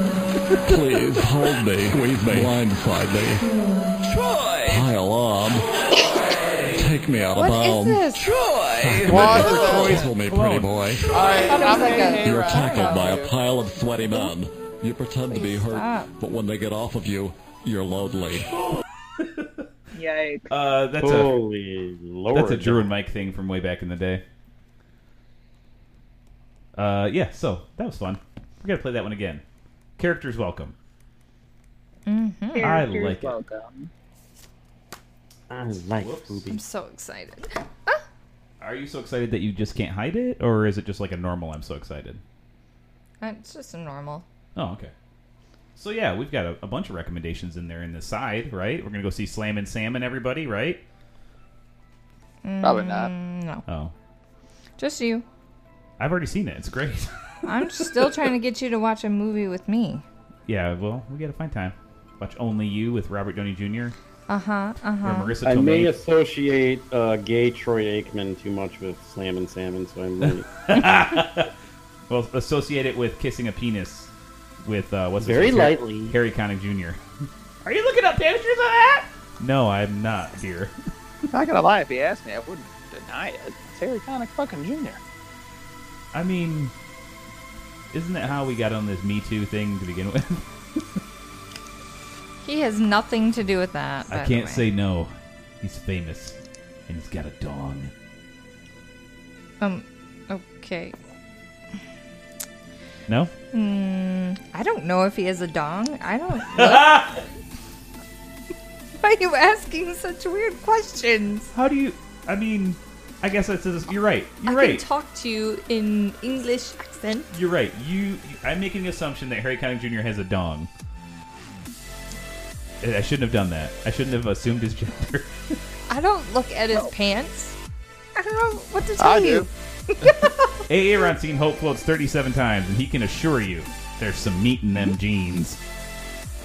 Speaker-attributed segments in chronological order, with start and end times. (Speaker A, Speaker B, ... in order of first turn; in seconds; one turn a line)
Speaker A: 0.6-3.5
Speaker A: 4.6-5.7
Speaker A: 6.7-11.6
Speaker B: 7.3-8.3
Speaker C: 9.0-10.1
Speaker D: 10.2-10.7
Speaker C: 11.1-13.3
Speaker B: 11.4-13.1
Speaker A: 12.2-18.5
Speaker B: 15.3-16.1
Speaker D: 19.2-19.6
Speaker E: 19.9-20.5
Speaker D: 20.5-21.4
Speaker F: 21.0-22.9
Speaker D: 22.3-24.2
Speaker D: 26.8-29.4
Speaker D: 30.0-30.7
Speaker B: 32.1-32.8
Speaker E: 32.5-33.9
Speaker D: 32.6-33.4
Speaker F: 35.5-36.6
Speaker D: 36.0-36.4
Speaker B: 36.5-38.0
Speaker D: 38.6-42.2
Speaker B: 43.2-44.2
Speaker D: 44.5-44.9
Speaker D: 45.7-50.8
Speaker B: 52.4-53.6
Speaker C: 52.6-53.1
Speaker D: 53.6-53.9
Speaker B: 54.8-55.2
Speaker D: 56.0-57.1
Speaker B: 57.5-60.0
Speaker D: 60.5-64.0
Speaker B: 64.3-65.3
Speaker D: 65.0-65.9
Speaker F: 65.4-70.5
Speaker D: 70.7-71.5
Speaker D: 72.1-74.1
Speaker D: 74.6-77.0
Speaker F: 75.2-76.1
Speaker D: 77.6-80.7
Speaker C: 81.3-85.0
Speaker D: 86.1-86.7
Speaker D: 87.9-91.0
Speaker B: 92.4-94.6
Speaker D: 94.1-96.3
Speaker D: 96.9-97.9
Speaker B: 99.6-101.0
Speaker B: 103.5-107.1
Speaker D: 106.5-107.2
Speaker B: 109.0-111.5
Speaker D: 111.5-114.8
Speaker B: 114.5-117.3
Speaker D: 117.3-120.7
Speaker D: 122.8-125.6
Speaker B: 125.9-127.5
Speaker B: 128.1-130.4
Speaker C: 129.0-129.5
Speaker D: 130.7-135.6